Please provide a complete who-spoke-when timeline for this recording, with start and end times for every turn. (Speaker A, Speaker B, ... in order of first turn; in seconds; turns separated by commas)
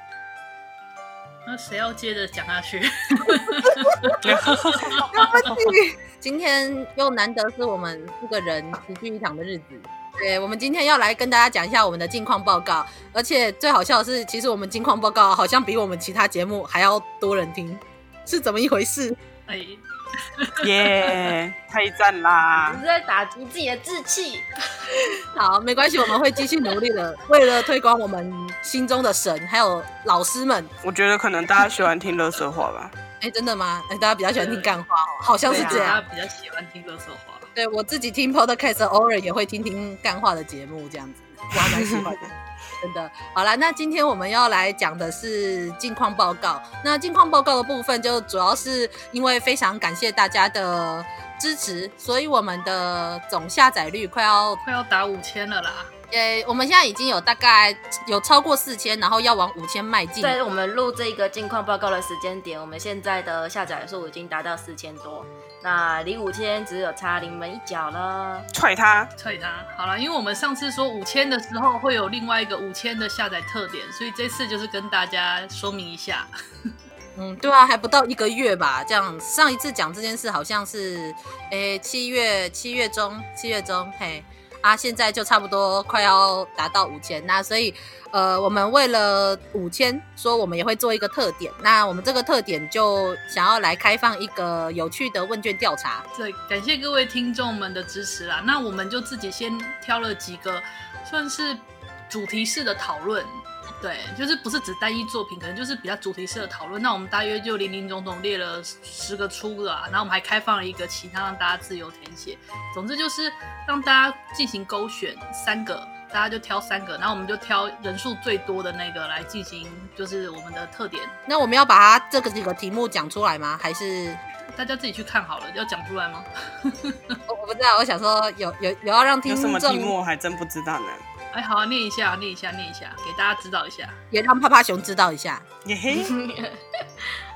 Speaker A: 1.4-5.3, Speaker B: 4.2-4.8, Speaker C: 5.1-19.1, Speaker B: 5.4-5.7, Speaker A: 19.5-19.8, Speaker B: 20.6-22.8, Speaker D: 22.5-24.5, Speaker C: 25.4-30.7, Speaker B: 30.8-32.9, Speaker C: 33.2-36.0, Speaker A: 34.3-34.7, Speaker A: 35.5-37.5, Speaker D: 35.5-36.0, Speaker C: 37.5-54.6, Speaker B: 41.5-42.2, Speaker A: 54.6-55.9, Speaker C: 56.1-60.4, Speaker D: 60.2-68.5, Speaker B: 68.5-69.1, Speaker A: 69.2-76.3, Speaker C: 77.2-96.0, Speaker A: 96.1-121.1, Speaker C: 121.3-124.2, Speaker A: 124.5-127.2, Speaker C: 127.3-129.9, Speaker B: 129.2-131.0, Speaker A: 131.3-134.0, Speaker C: 134.1-135.4, Speaker B: 135.6-136.1, Speaker D: 135.9-136.5